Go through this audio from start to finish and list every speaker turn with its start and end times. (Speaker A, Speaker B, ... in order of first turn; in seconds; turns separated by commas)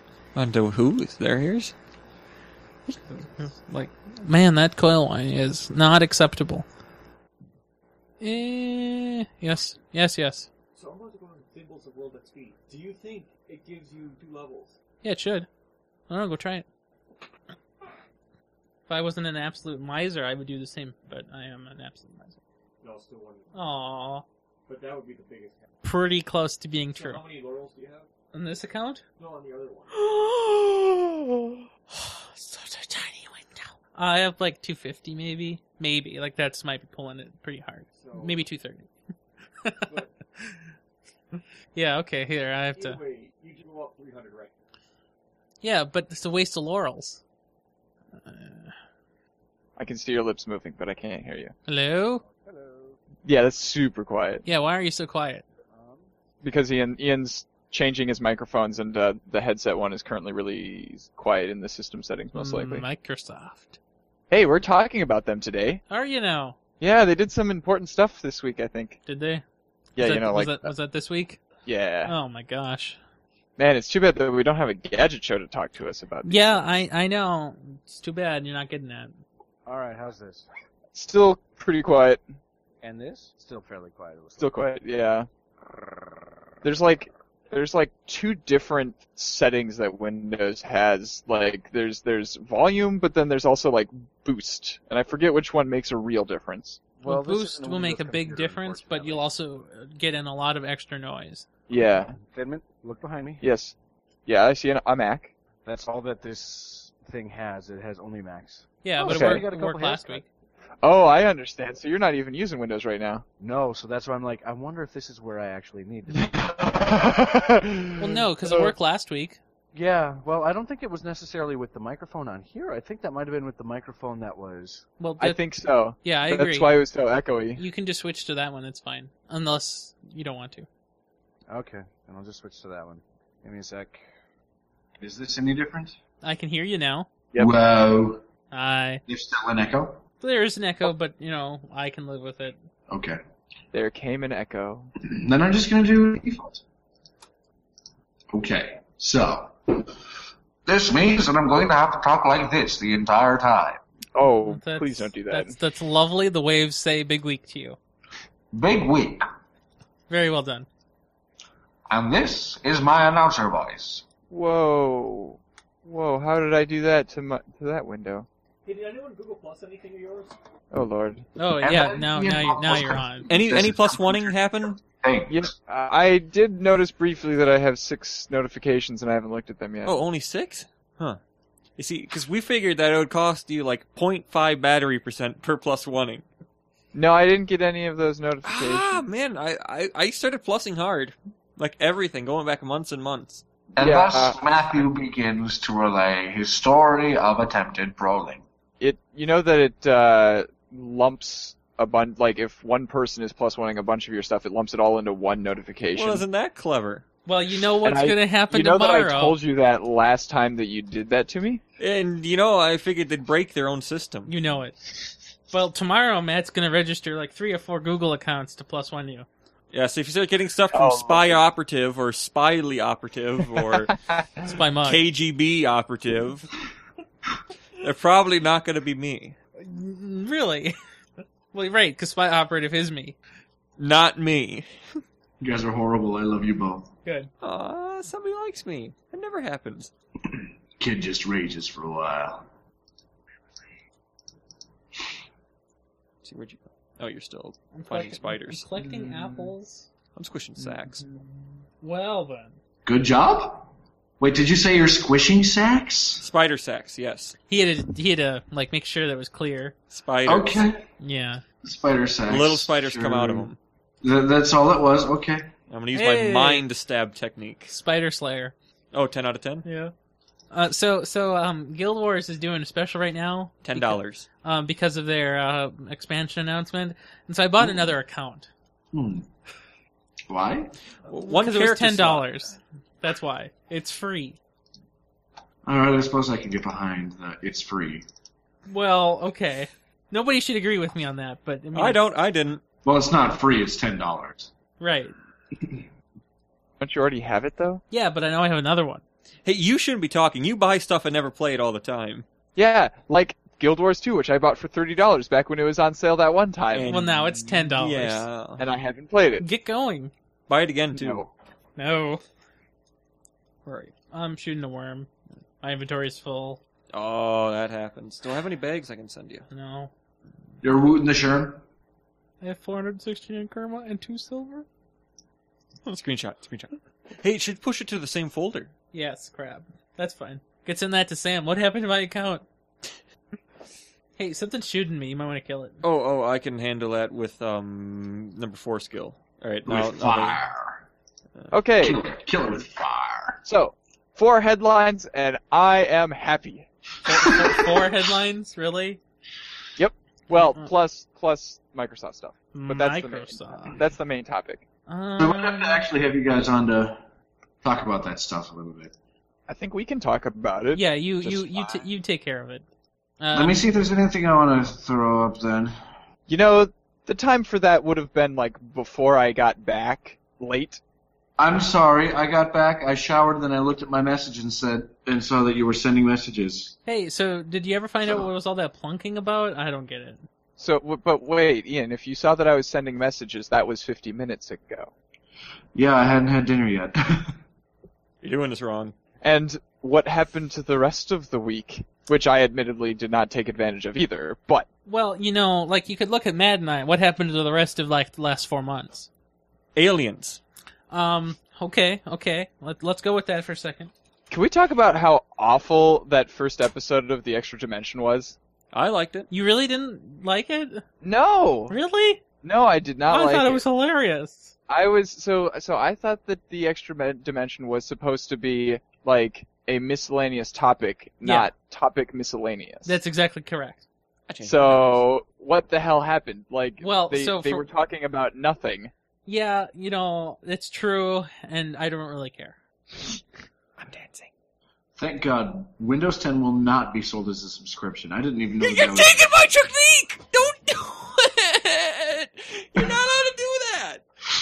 Speaker A: 0.3-1.7, Speaker B: 3.4-6.7, Speaker B: 8.2-10.5, Speaker C: 10.7-14.8, Speaker B: 15.0-15.5, Speaker B: 16.1-16.6, Speaker B: 18.9-22.4, Speaker C: 22.8-23.6, Speaker B: 23.5-24.2, Speaker C: 24.7-25.7, Speaker B: 25.8-27.2, Speaker C: 26.9-28.1, Speaker B: 28.3-29.0, Speaker C: 29.2-29.9, Speaker B: 31.9-38.9, Speaker C: 37.9-38.5, Speaker C: 39.9-40.1, Speaker B: 41.8-43.0, Speaker C: 42.7-44.6, Speaker B: 45.6-47.2, Speaker B: 48.2-48.7, Speaker D: 49.8-51.5, Speaker B: 51.7-52.2, Speaker E: 52.4-53.0, Speaker D: 53.2-54.4, Speaker B: 54.5-55.4, Speaker E: 55.7-56.1, Speaker D: 56.4-62.8, Speaker B: 62.4-63.8, Speaker D: 64.3-65.8, Speaker B: 65.9-66.6, Speaker D: 66.8-69.0, Speaker B: 69.1-69.4, Speaker D: 70.0-70.7, Speaker B: 70.0-71.4, Speaker D: 71.7-72.1, Speaker B: 72.1-73.0, Speaker D: 73.6-76.8, Speaker B: 76.2-79.2, Speaker E: 79.7-80.5, Speaker D: 80.9-82.2, Speaker E: 82.8-84.7, Speaker D: 84.4-85.3, Speaker D: 86.6-96.8, Speaker E: 97.0-99.3, Speaker B: 97.0-101.5, Speaker D: 101.7-102.1, Speaker E: 101.8-103.4, Speaker D: 103.4-103.8, Speaker D: 104.3-105.3, Speaker E: 105.7-110.2, Speaker B: 108.8-110.2, Speaker D: 110.8-113.2, Speaker E: 113.4-116.7, Speaker D: 116.1-118.7, Speaker B: 118.0-119.4, Speaker E: 119.7-124.9, Speaker B: 125.0-125.4, Speaker D: 125.2-127.6, Speaker B: 126.0-126.7, Speaker B: 127.6-130.7, Speaker E: 131.5-134.0, Speaker F: 135.0-136.0, Speaker B: 136.2-137.1, Speaker F: 137.4-138.2, Speaker B: 138.5-139.0, Speaker F: 139.1-140.0, Speaker B: 140.2-142.6, Speaker F: 142.9-143.2, Speaker D: 143.7-144.9, Speaker F: 145.0-146.6, Speaker F: 148.3-149.9, Speaker F: 150.7-153.8, Speaker D: 154.2-155.5, Speaker B: 154.4-157.8, Speaker F: 158.5-159.2, Speaker B: 160.1-160.7, Speaker F: 161.9-164.0, Speaker D: 164.3-168.3, Speaker C: 168.7-170.3, Speaker D: 170.7-171.3, Speaker B: 171.4-173.3, Speaker F: 171.6-175.5, Speaker A: 173.3-174.8, Speaker D: 175.3-180.0, Speaker A: 179.8-181.2, Speaker A: 181.8-186.2, Speaker D: 186.9-189.0, Speaker A: 188.4-193.4, Speaker F: 193.8-198.4, Speaker D: 193.8-194.4, Speaker D: 198.8-206.2, Speaker A: 205.9-207.1, Speaker B: 207.3-209.4, Speaker D: 207.8-211.6, Speaker A: 211.8-214.3, Speaker B: 214.3-214.8, Speaker B: 215.5-219.3, Speaker A: 219.7-224.0, Speaker D: 220.7-221.4, Speaker D: 223.6-224.2, Speaker B: 224.4-225.0, Speaker A: 224.8-226.5, Speaker A: 227.8-229.4, Speaker B: 229.6-230.8, Speaker B: 231.5-233.2, Speaker A: 233.8-234.7, Speaker F: 235.4-236.9, Speaker B: 237.1-237.3, Speaker A: 237.4-239.9, Speaker F: 240.3-242.5, Speaker A: 246.2-248.6, Speaker B: 247.7-249.9, Speaker A: 250.2-251.0, Speaker B: 250.6-251.2, Speaker B: 251.8-252.6, Speaker F: 252.8-256.3, Speaker A: 256.2-257.4, Speaker B: 257.5-259.8, Speaker A: 259.9-260.6, Speaker F: 260.2-260.8, Speaker B: 261.0-261.4, Speaker F: 261.6-263.5, Speaker A: 262.3-263.6, Speaker F: 264.0-265.5, Speaker A: 265.7-267.7, Speaker B: 265.9-266.6, Speaker B: 267.7-268.5, Speaker A: 268.9-269.7, Speaker B: 269.6-269.9, Speaker B: 270.5-278.5, Speaker A: 273.6-274.3, Speaker F: 277.6-277.9, Speaker F: 278.9-279.3, Speaker F: 280.3-280.8, Speaker A: 281.1-282.3, Speaker B: 281.3-284.4, Speaker F: 285.6-288.0, Speaker B: 288.7-292.0, Speaker A: 291.7-292.6, Speaker F: 292.8-294.5, Speaker B: 294.8-295.1, Speaker D: 296.8-297.8, Speaker B: 297.9-299.0, Speaker A: 299.4-302.3, Speaker D: 302.6-306.9, Speaker A: 306.7-308.6, Speaker B: 306.9-308.2, Speaker D: 308.6-309.4, Speaker B: 309.4-310.1, Speaker A: 310.5-311.3, Speaker D: 310.9-311.3, Speaker B: 311.8-312.2, Speaker B: 313.7-315.1, Speaker B: 315.6-316.6, Speaker A: 316.9-319.5, Speaker B: 319.5-319.9, Speaker F: 320.6-321.6, Speaker B: 322.4-324.7, Speaker A: 325.9-328.7, Speaker B: 328.9-332.4, Speaker B: 334.2-335.8, Speaker A: 335.8-340.4, Speaker F: 339.6-340.8, Speaker D: 341.5-342.0, Speaker F: 341.8-343.4, Speaker D: 343.4-346.7, Speaker B: 347.0-349.0, Speaker D: 349.8-354.6, Speaker B: 350.4-350.7, Speaker B: 352.5-353.8, Speaker B: 354.9-355.9, Speaker F: 355.2-357.0, Speaker F: 357.6-358.9, Speaker D: 359.5-361.8, Speaker B: 360.8-362.7, Speaker B: 363.2-363.6, Speaker F: 363.3-365.8, Speaker D: 366.3-370.8, Speaker F: 371.4-376.8, Speaker B: 376.9-380.3, Speaker D: 380.6-384.9, Speaker F: 385.8-387.4, Speaker A: 388.2-388.9, Speaker D: 389.2-394.7, Speaker B: 394.9-399.1, Speaker A: 399.8-400.4, Speaker B: 400.9-403.9, Speaker D: 404.3-408.4, Speaker A: 408.7-409.3, Speaker B: 409.3-410.8, Speaker D: 411.0-411.7, Speaker B: 411.7-412.2, Speaker D: 412.4-413.6, Speaker B: 413.1-414.6, Speaker D: 414.7-423.0, Speaker B: 421.2-421.5, Speaker B: 422.9-423.9, Speaker A: 424.3-425.0, Speaker D: 424.4-428.9, Speaker B: 426.8-427.7, Speaker B: 429.3-432.6, Speaker A: 433.8-434.3, Speaker F: 435.0-439.2, Speaker A: 438.6-444.0